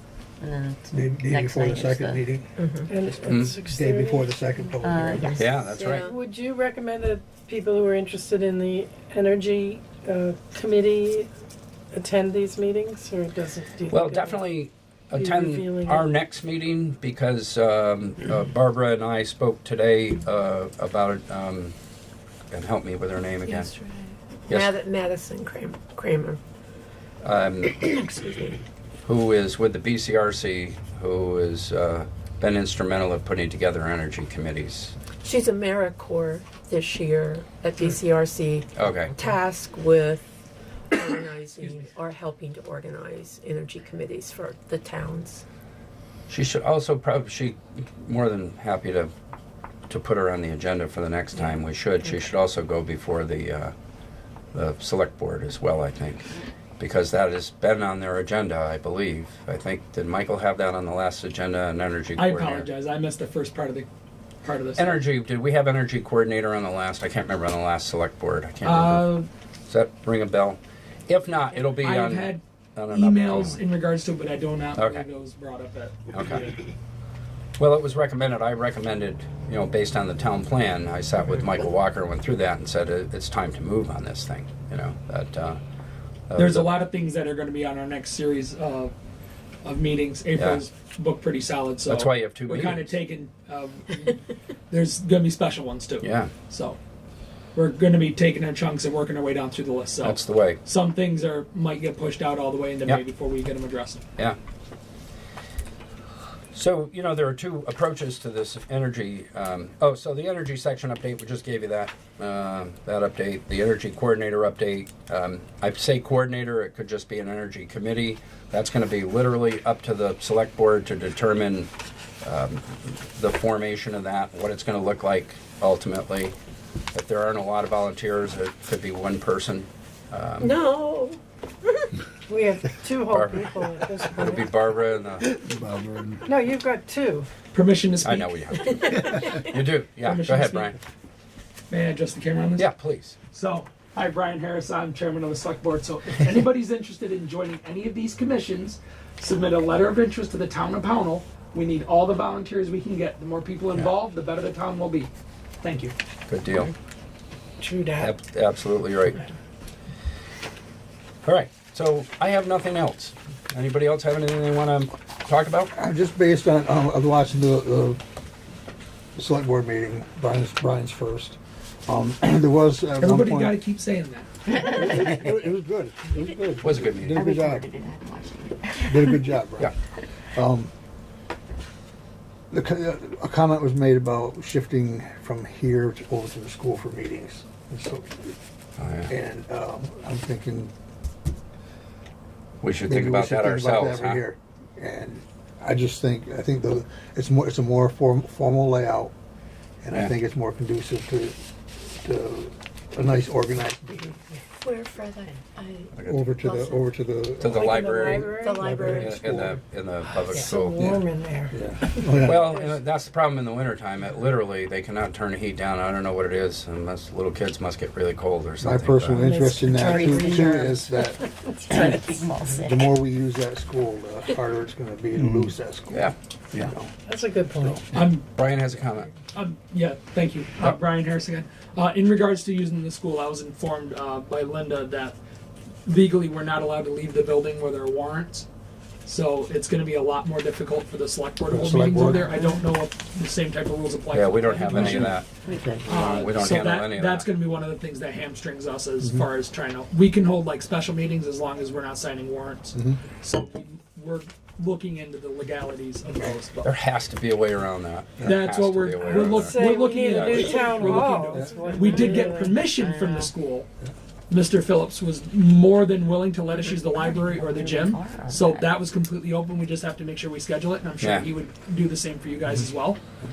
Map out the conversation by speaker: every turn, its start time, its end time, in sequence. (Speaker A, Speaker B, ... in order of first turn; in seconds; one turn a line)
Speaker A: 0.4-2.3
Speaker B: 0.9-2.5
Speaker C: 2.6-3.0
Speaker D: 2.9-4.9
Speaker E: 3.2-3.6
Speaker B: 3.6-5.3
Speaker A: 4.8-5.5
Speaker C: 5.0-6.2
Speaker E: 5.3-6.1
Speaker D: 6.0-11.3
Speaker D: 11.9-14.6
Speaker E: 13.9-21.7
Speaker D: 15.1-16.1
Speaker E: 22.5-23.7
Speaker C: 23.4-26.4
Speaker E: 27.2-27.8
Speaker C: 27.7-28.6
Speaker E: 29.0-34.9
Speaker C: 35.2-40.3
Speaker E: 38.8-39.1
Speaker C: 40.9-45.4
Speaker E: 46.3-49.1
Speaker E: 49.9-53.7
Speaker E: 54.5-62.7
Speaker F: 62.1-63.9
Speaker F: 64.4-65.0
Speaker E: 64.8-69.2
Speaker F: 68.6-69.3
Speaker E: 69.7-73.6
Speaker F: 71.7-76.6
Speaker E: 74.8-75.0
Speaker E: 76.1-76.5
Speaker E: 77.6-85.6
Speaker E: 86.3-86.7
Speaker F: 86.3-88.9
Speaker F: 89.6-96.8
Speaker E: 90.3-90.6
Speaker E: 91.8-93.0
Speaker E: 96.0-96.3
Speaker F: 97.5-104.0
Speaker E: 100.0-100.6
Speaker E: 106.5-121.7
Speaker E: 122.2-126.3
Speaker E: 126.9-130.6
Speaker C: 130.4-131.9
Speaker D: 132.3-134.7
Speaker E: 133.0-135.3
Speaker B: 135.2-136.2
Speaker D: 136.2-137.3
Speaker F: 137.5-139.1
Speaker E: 138.0-138.8
Speaker C: 138.9-139.4
Speaker E: 139.4-140.8
Speaker F: 140.0-140.8
Speaker F: 141.7-142.7
Speaker E: 142.6-143.2
Speaker F: 143.3-155.9
Speaker E: 156.3-156.7
Speaker D: 157.6-158.1
Speaker E: 158.0-159.3
Speaker E: 161.2-165.7
Speaker B: 165.7-168.0
Speaker B: 169.2-173.6
Speaker F: 173.0-174.3
Speaker B: 174.5-177.7
Speaker E: 176.6-177.2
Speaker A: 177.1-179.2
Speaker B: 178.8-179.7
Speaker B: 180.3-180.7
Speaker B: 182.5-188.3
Speaker E: 188.8-189.1
Speaker B: 189.1-190.7
Speaker E: 192.6-194.2
Speaker B: 192.8-199.1
Speaker B: 199.8-201.3
Speaker B: 201.9-204.2
Speaker C: 204.6-206.8
Speaker E: 205.9-206.4
Speaker B: 206.0-207.8
Speaker E: 207.4-211.0
Speaker D: 207.4-209.3
Speaker C: 208.3-209.4
Speaker B: 208.6-209.6
Speaker D: 210.2-212.8
Speaker B: 211.5-212.5
Speaker E: 212.2-219.4
Speaker B: 218.6-222.0
Speaker D: 219.1-222.0
Speaker A: 219.9-220.8
Speaker A: 221.7-222.8
Speaker B: 222.6-227.0
Speaker D: 227.1-227.8
Speaker F: 227.9-228.3
Speaker E: 228.2-229.1
Speaker F: 229.3-235.2
Speaker F: 235.8-238.5
Speaker F: 239.1-245.2
Speaker B: 241.5-242.4
Speaker E: 244.1-245.3
Speaker B: 244.7-245.8
Speaker E: 245.8-247.2
Speaker F: 245.8-256.7
Speaker B: 249.0-249.3
Speaker B: 252.7-253.0
Speaker E: 256.6-261.1
Speaker F: 258.2-263.7
Speaker D: 259.4-262.6
Speaker B: 261.2-261.8
Speaker A: 262.7-263.3
Speaker F: 264.3-273.0
Speaker A: 267.0-268.7
Speaker E: 271.0-271.3